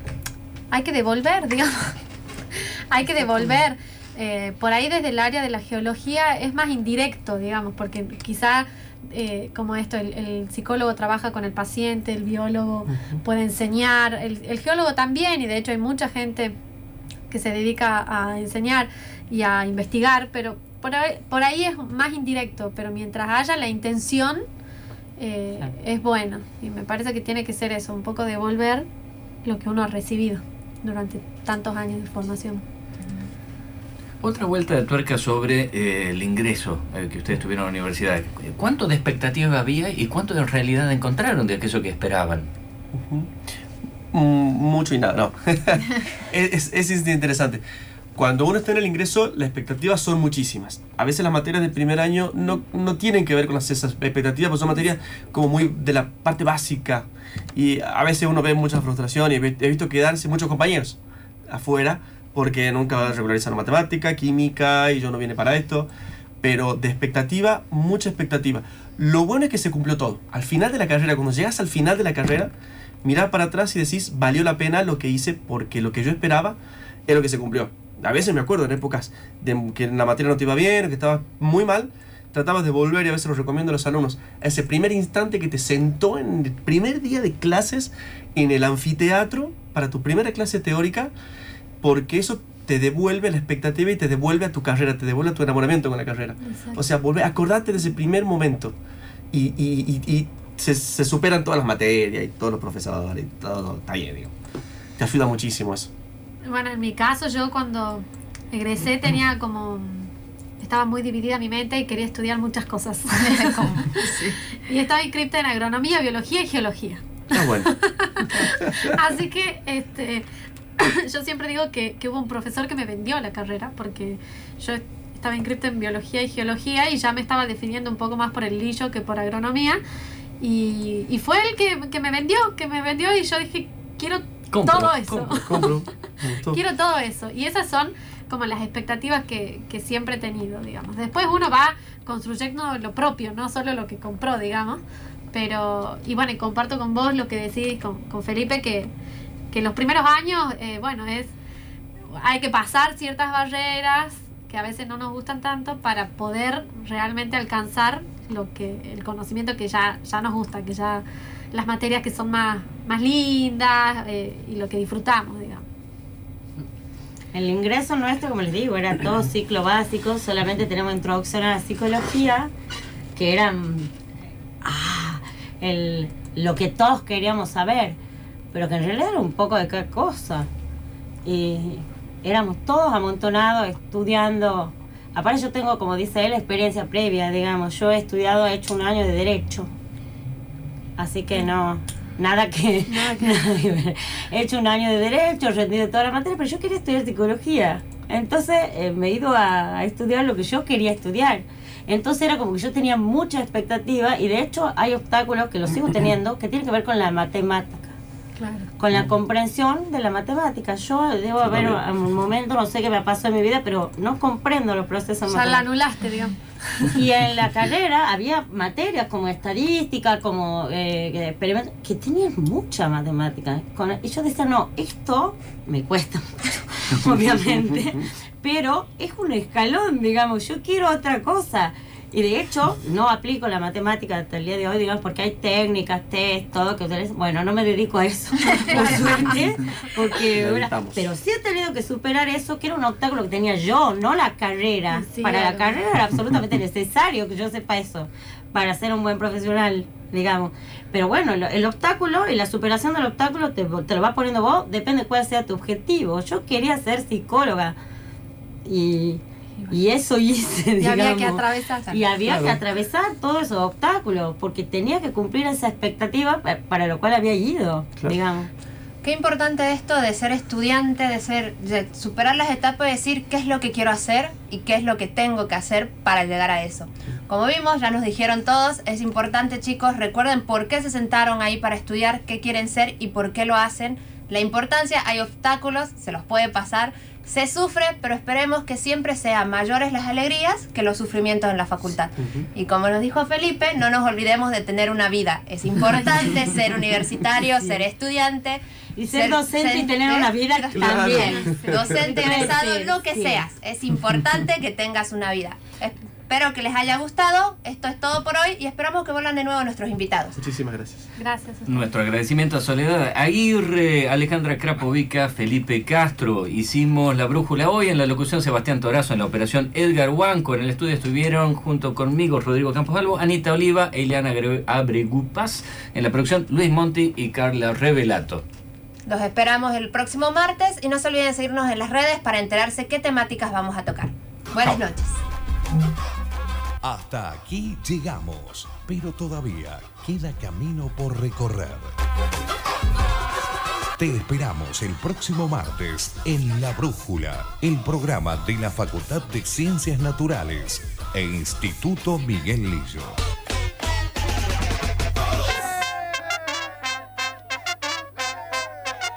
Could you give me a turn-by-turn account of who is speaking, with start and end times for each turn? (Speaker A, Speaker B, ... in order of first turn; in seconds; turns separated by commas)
Speaker A: 0.7-1.9, Speaker A: 2.9-16.6, Speaker A: 17.3-24.4, Speaker A: 25.2-28.9, Speaker A: 29.4-32.6, Speaker B: 34.2-42.5, Speaker C: 42.9-43.3, Speaker C: 44.1-47.6, Speaker C: 48.1-65.9, Speaker C: 66.4-72.5, Speaker C: 73.0-91.1, Speaker C: 91.8-98.8, Speaker A: 96.4-96.8, Speaker C: 99.3-104.3, Speaker C: 105.0-105.9, Speaker A: 106.5-120.2, Speaker D: 113.2-114.4, Speaker C: 117.3-117.7, Speaker C: 118.4-118.9, Speaker A: 120.8-129.8, Speaker A: 130.4-135.8, Speaker B: 134.5-135.3, Speaker C: 135.1-136.6, Speaker A: 136.5-148.9, Speaker A: 149.5-151.3, Speaker A: 152.2-165.6, Speaker E: 167.3-172.5, Speaker E: 173.1-173.9, Speaker E: 174.6-178.0, Speaker E: 178.5-180.5, Speaker E: 181.2-189.7, Speaker E: 191.0-207.9, Speaker A: 192.9-193.4, Speaker A: 208.4-208.7, Speaker E: 208.8-215.6, Speaker C: 211.4-211.8, Speaker A: 215.3-216.9, Speaker E: 216.9-257.8, Speaker A: 238.7-239.3, Speaker C: 238.8-239.1, Speaker C: 239.8-241.0, Speaker A: 244.9-245.8, Speaker E: 258.6-268.5, Speaker A: 260.8-262.0, Speaker C: 262.2-262.6, Speaker D: 269.0-310.4, Speaker E: 299.0-303.4, Speaker C: 300.7-302.0, Speaker C: 310.4-311.1, Speaker A: 311.2-311.9, Speaker B: 311.7-328.4, Speaker D: 329.1-335.2, Speaker F: 336.8-341.9, Speaker F: 344.0-353.2